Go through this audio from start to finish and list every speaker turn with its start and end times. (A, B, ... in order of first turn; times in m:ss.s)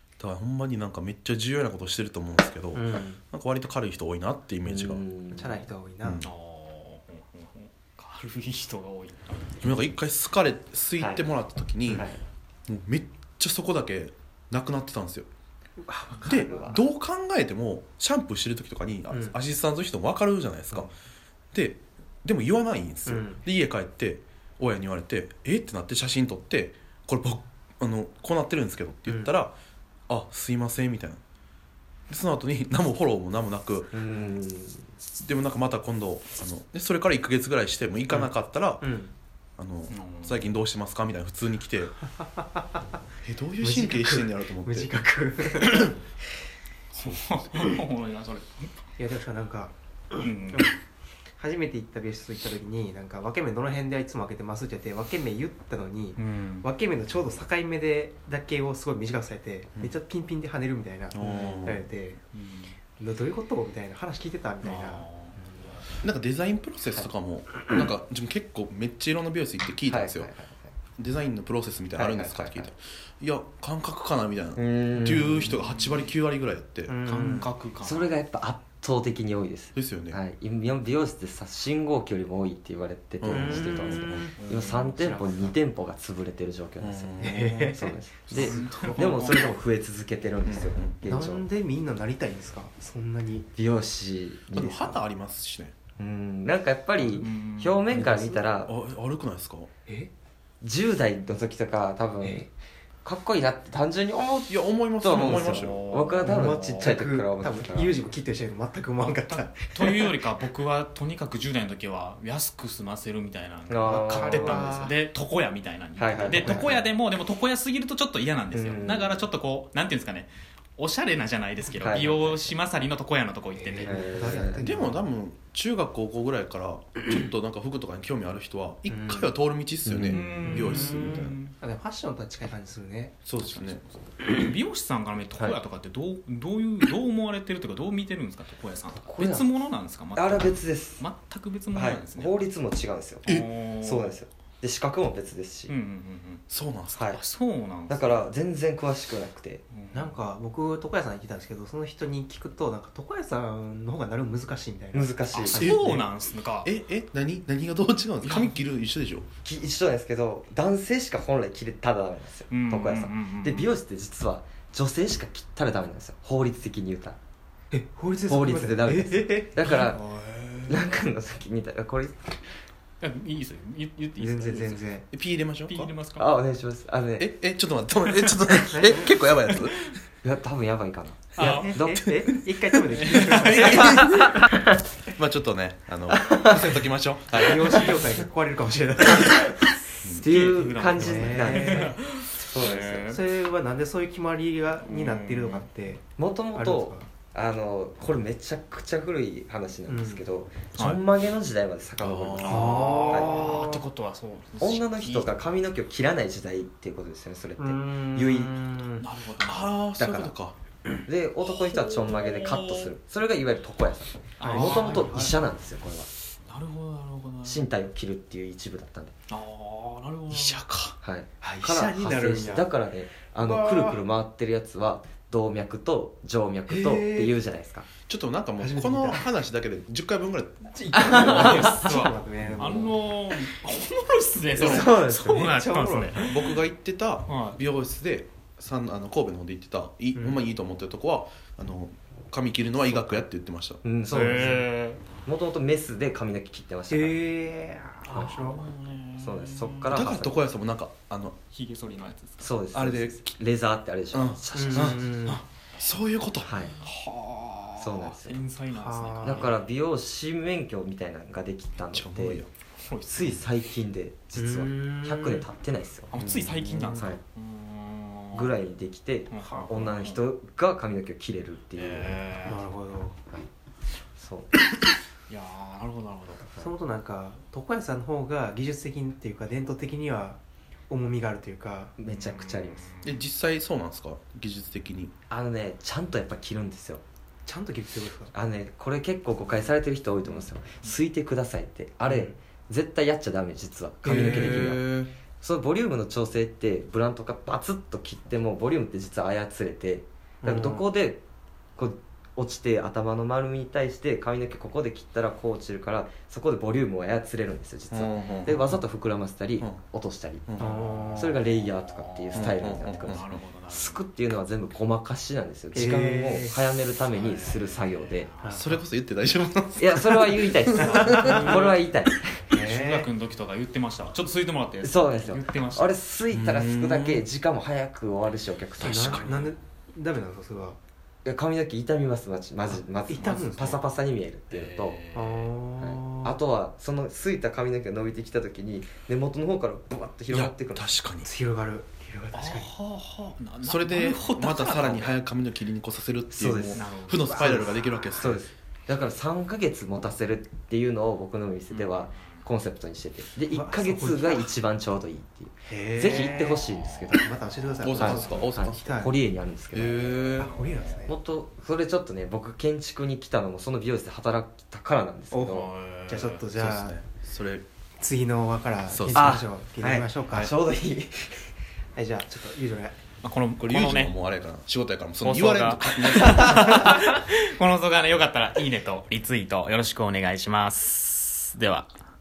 0:00.2-0:05.0 A
0:02.7-0:03.2 B
0:04.6-0:05.6 C
0:05.3-0:06.2 B
0:06.0-0:06.3 A
0:06.2-0:09.8 D
0:09.6-0:12.1 A
0:11.0-0:11.2 C
0:11.8-0:12.2 C
0:12.7-0:15.3 A
0:15.8-0:16.8 B
0:16.2-0:20.9 A
0:16.4-0:16.8 C
0:19.1-0:19.4 B
0:21.5-0:29.5 A
0:23.0-0:23.4 B
0:29.0-0:29.3 B
0:30.1-0:31.2 A
0:32.1-0:33.9 A
0:33.9-0:34.9 C
0:35.2-0:38.8 A
0:38.8-0:39.1 B
0:39.6-0:42.0 A
0:39.9-0:40.5 D
0:42.2-0:42.7 B
0:43.2-0:45.0 A
0:43.6-0:45.9 B
0:45.5-0:45.9 A
0:46.9-0:47.5 A
0:47.0-0:48.7 D
0:49.0-0:49.7 B
0:50.2-0:50.7 D
0:51.4-1:02.2 B
0:56.2-0:56.7 D
1:01.1-1:01.9 A
1:02.3-1:02.7 D
1:03.0-1:05.0 B
1:04.6-1:05.4 D
1:06.0-1:10.3 A
1:09.9-1:10.7 C
1:11.0-1:17.0 A
1:12.0-1:12.7 C
1:14.6-1:15.6 C
1:15.8-1:16.1 D
1:16.9-1:17.5 B
1:17.0-1:18.2 D
1:17.8-1:31.4 C
1:19.7-1:20.2 A
1:23.2-1:24.3 A
1:23.3-1:24.3 B
1:24.4-1:24.8 D
1:24.9-1:25.5 B
1:26.8-1:27.8 A
1:27.2-1:28.5 B
1:28.3-1:29.5 D
1:28.3-1:29.1 A
1:30.4-1:31.0 A
1:31.1-1:33.5 B
1:33.6-1:35.0 C
1:34.5-1:35.7 A
1:36.0-1:38.7 C
1:37.0-1:37.9 D
1:37.9-1:39.7 A
1:40.6-1:42.5 C
1:43.0-1:47.9 C
1:44.5-1:45.8 A
1:45.4-1:46.9 D
1:46.2-1:50.1 B
1:49.3-2:04.0 D
1:53.7-1:54.8 C
1:53.8-1:54.9 B
1:56.0-1:56.8 C
1:56.3-1:56.8 B
1:58.5-1:59.2 C
2:01.8-2:02.5 C
2:03.5-2:05.0 B
2:03.8-2:04.7 C
2:04.6-2:11.4 A
2:08.9-2:09.3 B
2:09.8-2:10.2 C
2:10.1-2:11.5 D
2:10.4-2:13.2 B
2:13.2-2:13.8 A
2:13.4-2:22.4 D
2:18.9-2:19.5 C
2:20.1-2:21.0 C
2:21.7-2:23.3 C
2:23.2-2:24.1 D
2:23.8-2:25.7 C
2:25.7-2:26.4 D
2:26.5-2:27.0 A
2:26.9-2:27.2 C
2:27.1-2:28.2 D
2:27.9-2:29.6 C
2:29.7-2:30.1 D
2:29.9-2:36.0 B
2:34.9-2:35.7 C
2:35.3-2:36.7 D
2:35.5-2:36.0 A
2:36.6-2:39.3 A
2:38.2-2:38.6 D
2:39.4-2:47.2 C
2:42.5-2:43.7 D
2:47.7-2:49.7 B
2:48.3-2:50.0 C
2:50.0-2:50.7 D
2:50.7-2:52.4 C
2:53.0-2:54.8 D
2:54.2-2:55.0 B
2:55.1-2:55.9 A
2:55.7-2:56.3 D
2:56.2-2:57.3 C
2:57.2-2:59.8 A
2:58.7-2:59.2 B
3:00.2-3:02.0 C
3:01.4-3:04.2 B
3:01.4-3:01.7 D
3:03.0-3:04.5 D
3:03.0-3:04.3 A
3:05.1-3:08.1 A
3:07.4-3:09.8 B
3:10.2-3:13.0 C
3:10.2-3:13.2 D
3:11.0-3:11.9 B
3:13.0-3:16.0 B
3:14.8-3:15.7 D
3:16.2-3:23.6 C
3:16.5-3:17.1 B
3:19.9-3:20.2 B
3:22.0-3:23.0 A
3:22.4-3:23.8 B
3:22.4-3:25.3 D
3:24.6-3:28.6 C
3:27.6-3:29.0 B
3:29.0-3:29.8 D
3:29.4-3:30.6 A
3:30.0-3:30.3 C
3:31.0-3:36.1 C
3:31.5-3:32.9 D
3:34.4-3:35.2 D
3:34.4-3:35.3 B
3:36.5-3:37.7 D
3:37.4-3:39.1 C
3:39.3-3:40.6 D
3:40.3-3:40.9 A
3:41.0-3:47.9 C
3:41.4-3:42.7 B
3:43.4-3:44.0 B
3:46.7-3:47.3 B
3:48.1-3:50.7 A
3:48.6-3:49.2 B
3:50.7-3:53.0 B
3:51.0-3:56.5 D
3:51.1-3:51.7 C
3:54.6-3:55.4 C
3:54.6-3:56.4 B
3:54.6-3:54.8 A
3:56.2-4:03.8 A
3:57.2-3:57.6 D
4:00.1-4:00.4 B
4:03.8-4:04.6 C
4:04.1-4:05.0 D
4:04.1-4:04.6 B
4:05.2-4:07.3 C
4:06.9-4:08.6 B
4:08.1-4:10.0 D
4:09.2-4:10.4 C
4:09.9-4:11.3 A
4:11.5-4:12.6 D
4:12.4-4:15.0 C
4:12.7-4:13.2 A
4:14.1-4:16.7 A
4:14.5-4:15.4 B
4:16.4-4:16.8 C
4:16.8-4:19.5 D
4:17.8-4:18.4 C
4:18.7-4:19.5 B
4:19.2-4:22.4 C
4:21.9-4:22.5 A
4:22.8-4:23.4 D
4:23.1-4:26.1 C
4:24.4-4:25.4 B
4:26.1-4:28.5 D
4:26.2-4:27.1 A
4:26.9-4:27.2 C
4:28.3-4:32.2 C
4:29.3-4:30.2 D
4:31.7-4:32.6 D
4:32.4-4:33.2 B
4:34.2-4:34.5 C
4:35.3-4:36.5 D
4:36.4-4:36.7 C
4:36.6-4:40.4 B
4:40.9-4:41.9 B
4:42.0-4:42.9 C
4:42.1-4:43.2 D
4:43.0-4:45.1 A
4:45.3-4:47.0 C
4:47.4-4:48.3 B
4:48.3-5:01.2 C
4:52.0-4:52.3 B
4:54.0-4:54.8 B
4:54.0-4:55.1 A
5:00.4-5:00.8 B
5:01.8-5:10.5 C
5:07.9-5:08.6 A
5:10.6-5:11.3 B
5:10.6-5:14.0 D
5:11.1-5:18.3 C
5:12.3-5:13.4 A
5:15.7-5:16.6 B
5:17.0-5:18.8 D
5:18.4-5:18.7 B
5:18.5-5:21.4 A
5:19.8-5:22.5 C
5:20.8-5:21.8 D
5:22.5-5:23.1 B
5:22.5-5:25.9 D
5:24.8-5:29.2 C
5:26.3-5:27.2 A
5:28.8-5:30.8 B
5:28.8-5:29.5 A
5:31.2-5:35.0 C
5:33.1-5:33.8 B
5:33.2-5:33.7 D
5:34.5-5:35.5 D
5:35.1-5:36.4 B
5:35.8-5:40.9 C
5:40.3-5:41.3 A
5:41.2-5:42.7 B
5:42.3-5:45.1 D
5:43.6-5:48.4 A
5:46.3-5:46.8 C
5:46.7-5:47.6 D
5:47.4-5:57.3 C
5:51.7-5:52.4 D
5:53.5-5:54.5 B
5:55.7-5:56.6 B
5:57.1-5:59.2 B
5:57.8-5:58.9 A
5:57.9-6:00.3 C
5:59.7-6:00.5 A
6:00.4-6:01.1 B
6:01.1-6:05.7 C
6:05.3-6:07.0 B
6:05.7-6:06.4 D
6:06.5-6:07.6 A
6:08.0-6:10.5 B
6:08.9-6:09.4 A
6:09.1-6:11.5 C
6:12.0-6:13.0 B
6:13.2-6:14.1 D
6:13.6-6:16.8 A
6:15.2-6:21.9 D